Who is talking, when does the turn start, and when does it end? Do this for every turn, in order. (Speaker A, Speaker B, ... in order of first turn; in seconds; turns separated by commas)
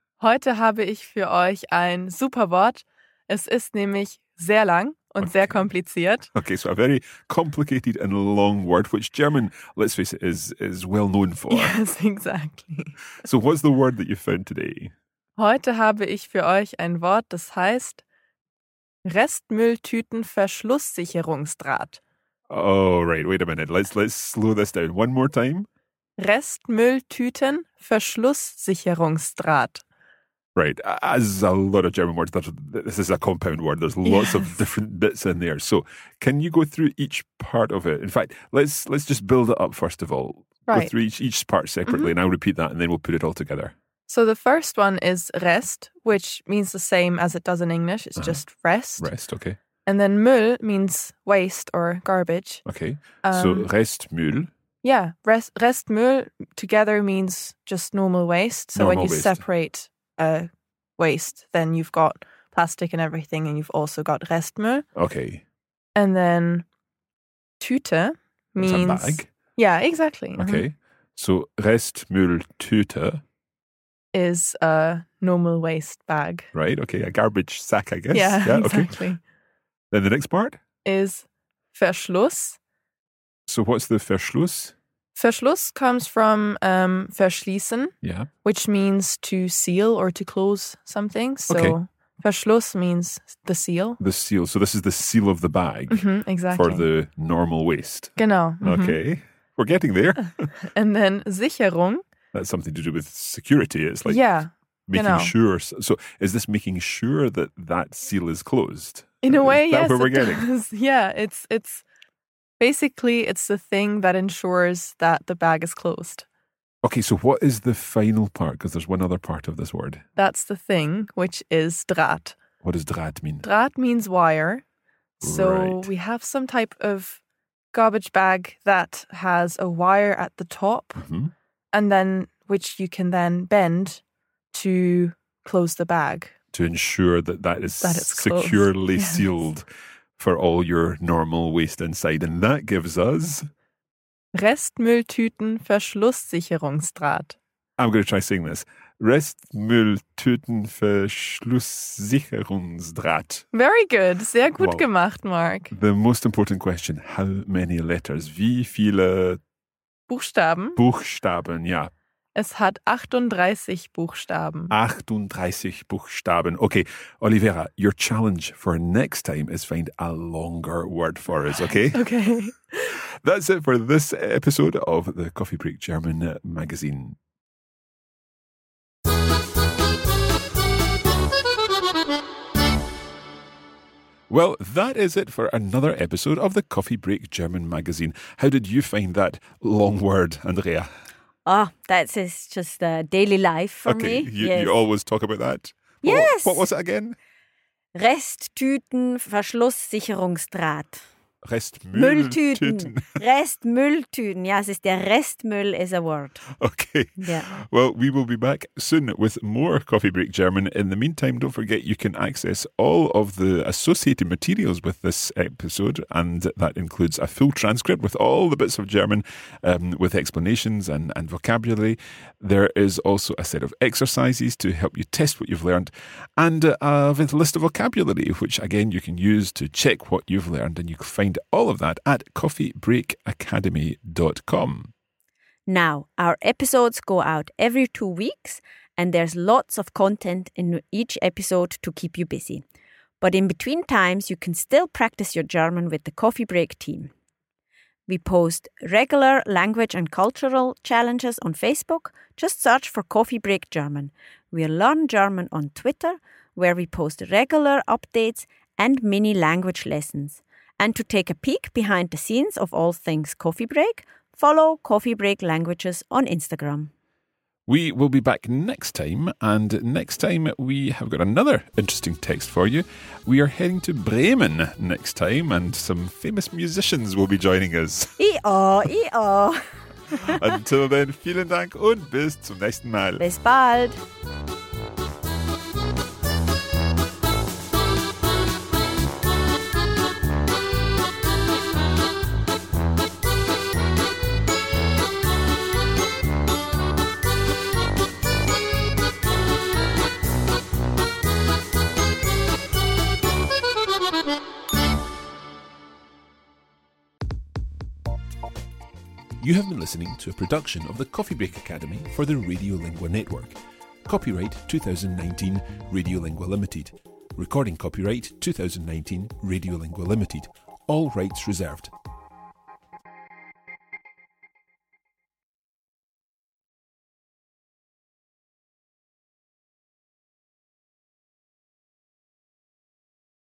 Speaker A: 0.2-6.3, Speaker B: 5.2-5.6, Speaker B: 6.3-11.8, Speaker A: 11.5-13.0, Speaker B: 13.2-14.9, Speaker A: 15.4-18.0, Speaker A: 19.0-22.0, Speaker B: 22.5-25.7, Speaker A: 26.2-29.8, Speaker B: 30.6-43.7, Speaker A: 34.0-34.5, Speaker A: 40.7-40.9, Speaker A: 41.9-42.1, Speaker A: 44.1-49.1, Speaker B: 48.2-48.4, Speaker B: 49.0-49.6, Speaker A: 49.9-52.6, Speaker B: 52.6-54.5, Speaker A: 53.2-53.7, Speaker A: 54.8-64.8, Speaker B: 58.7-59.4, Speaker B: 65.0-65.4, Speaker A: 66.0-66.7, Speaker A: 67.6-70.6, Speaker B: 68.6-69.3, Speaker B: 70.4-73.2, Speaker A: 74.1-76.5, Speaker B: 76.5-79.0, Speaker A: 78.1-79.2, Speaker B: 79.9-80.6, Speaker A: 80.8-82.6, Speaker B: 83.5-84.7, Speaker A: 85.2-94.0, Speaker B: 88.0-88.3, Speaker B: 91.5-91.8, Speaker B: 94.0-100.5, Speaker A: 95.9-96.8, Speaker A: 98.2-99.0, Speaker A: 100.6-102.0, Speaker B: 102.3-104.2, Speaker A: 104.0-105.3, Speaker B: 104.9-110.5, Speaker A: 109.2-111.8, Speaker A: 112.6-116.2, Speaker B: 116.8-120.0, Speaker A: 120.2-122.4, Speaker B: 122.6-123.5, Speaker A: 123.4-124.6, Speaker A: 125.2-127.2, Speaker B: 125.2-125.9, Speaker A: 127.7-131.0, Speaker B: 131.0-131.3, Speaker A: 131.7-134.0, Speaker A: 134.5-136.3, Speaker B: 136.5-139.7, Speaker A: 137.8-139.4, Speaker B: 140.2-143.5, Speaker A: 144.3-147.4, Speaker B: 147.8-153.4, Speaker A: 153.5-155.7, Speaker B: 154.6-154.9, Speaker B: 155.7-159.4, Speaker A: 160.1-160.8, Speaker B: 160.7-161.9, Speaker A: 162.3-164.7, Speaker B: 164.7-172.1, Speaker A: 171.9-173.0, Speaker B: 173.1-177.2, Speaker B: 184.3-190.9, Speaker C: 191.4-194.8, Speaker B: 193.8-197.2, Speaker C: 196.0-196.6, Speaker C: 197.9-201.0, Speaker B: 201.4-203.2, Speaker C: 201.9-206.4, Speaker B: 206.6-234.9, Speaker C: 207.2-207.5, Speaker C: 235.7-242.6, Speaker C: 243.2-247.1, Speaker C: 248.1-266.9, Speaker B: 267.7-278.1, Speaker C: 278.2-280.4, Speaker B: 280.1-283.3, Speaker C: 283.2-284.0, Speaker B: 309.4-321.9